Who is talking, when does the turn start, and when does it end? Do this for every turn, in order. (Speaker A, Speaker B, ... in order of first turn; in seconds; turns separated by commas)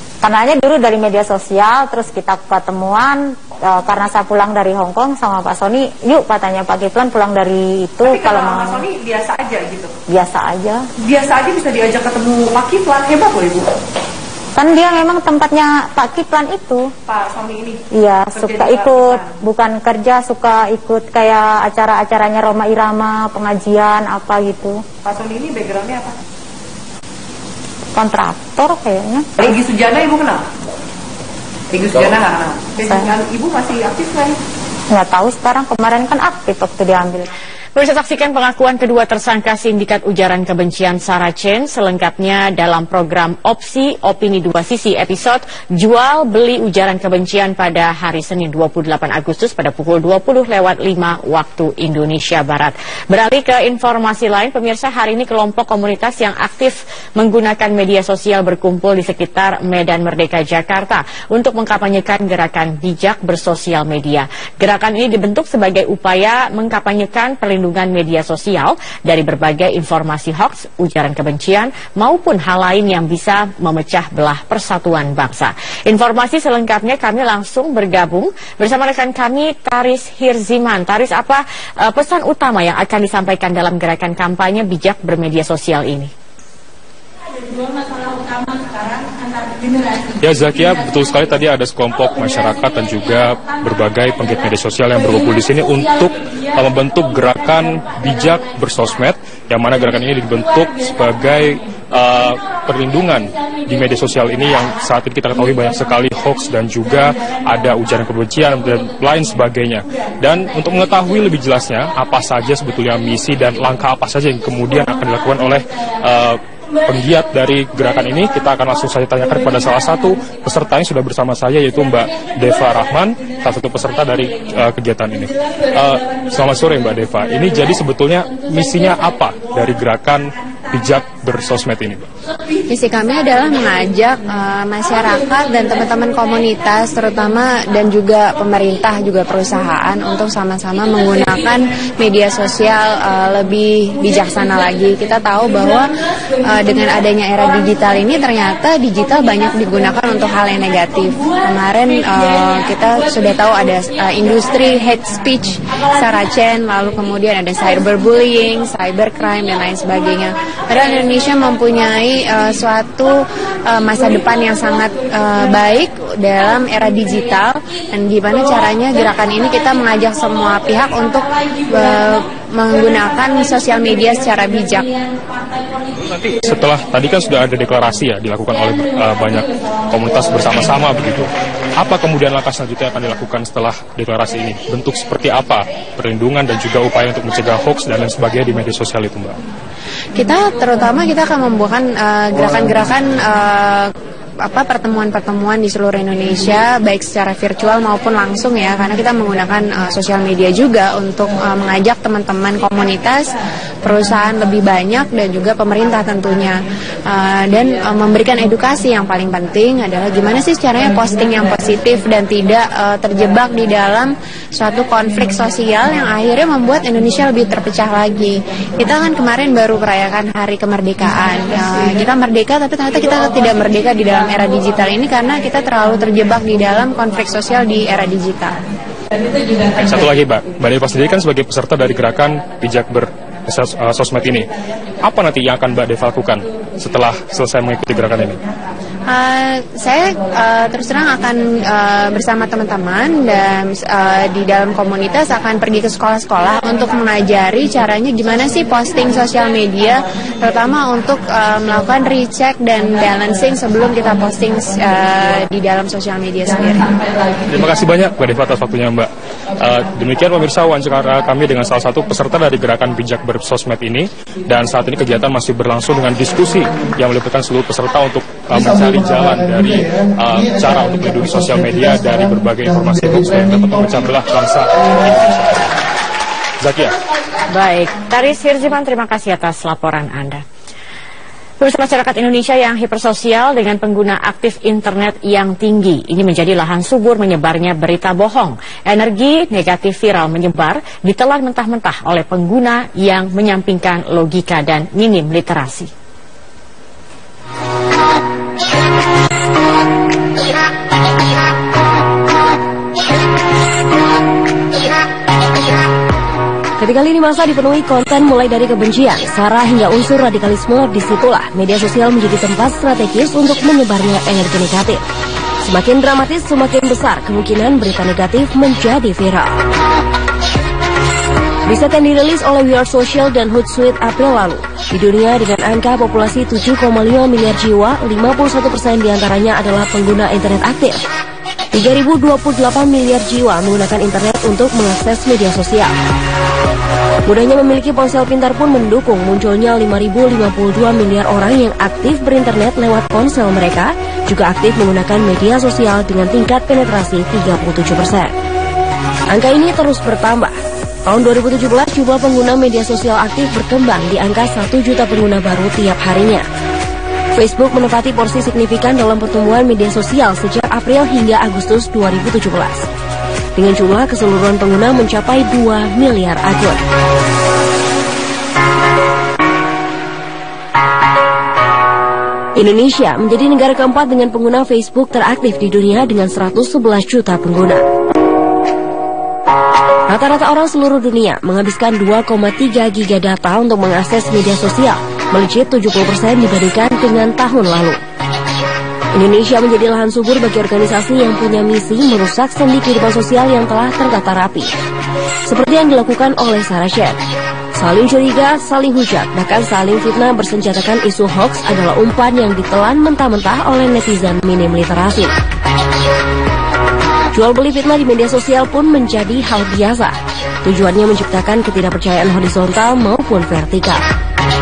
Speaker A: 0.2-8.8, Speaker B: 8.1-9.9, Speaker A: 10.1-10.8, Speaker B: 11.0-13.7, Speaker A: 14.5-16.9, Speaker B: 17.1-17.8, Speaker A: 17.9-24.8, Speaker B: 18.4-19.3, Speaker B: 25.0-26.2, Speaker A: 27.9-29.6, Speaker B: 29.4-30.4, Speaker B: 31.7-34.4, Speaker A: 32.8-33.1, Speaker A: 34.9-37.3, Speaker C: 37.8-86.1, Speaker D: 90.2-132.1, Speaker E: 132.7-145.9, Speaker E: 146.4-163.1, Speaker E: 163.7-174.9, Speaker D: 176.0-189.4, Speaker E: 190.2-193.9, Speaker E: 194.4-228.6, Speaker D: 229.8-234.5, Speaker D: 235.0-238.4, Speaker E: 239.1-256.9, Speaker D: 257.5-275.6, Speaker D: 276.6-276.9, Speaker C: 277.5-280.4, Speaker C: 281.6-295.9, Speaker F: 306.8-315.0, Speaker F: 315.6-319.6, Speaker F: 321.7-331.0, Speaker F: 331.7-335.9, Speaker F: 337.2-348.3, Speaker F: 349.3-356.4, Speaker F: 357.3-362.9, Speaker F: 363.6-366.8, Speaker F: 372.5-377.9, Speaker F: 380.1-388.0, Speaker F: 389.1-394.7, Speaker F: 395.4-397.2, Speaker F: 397.7-405.3, Speaker F: 407.3-414.0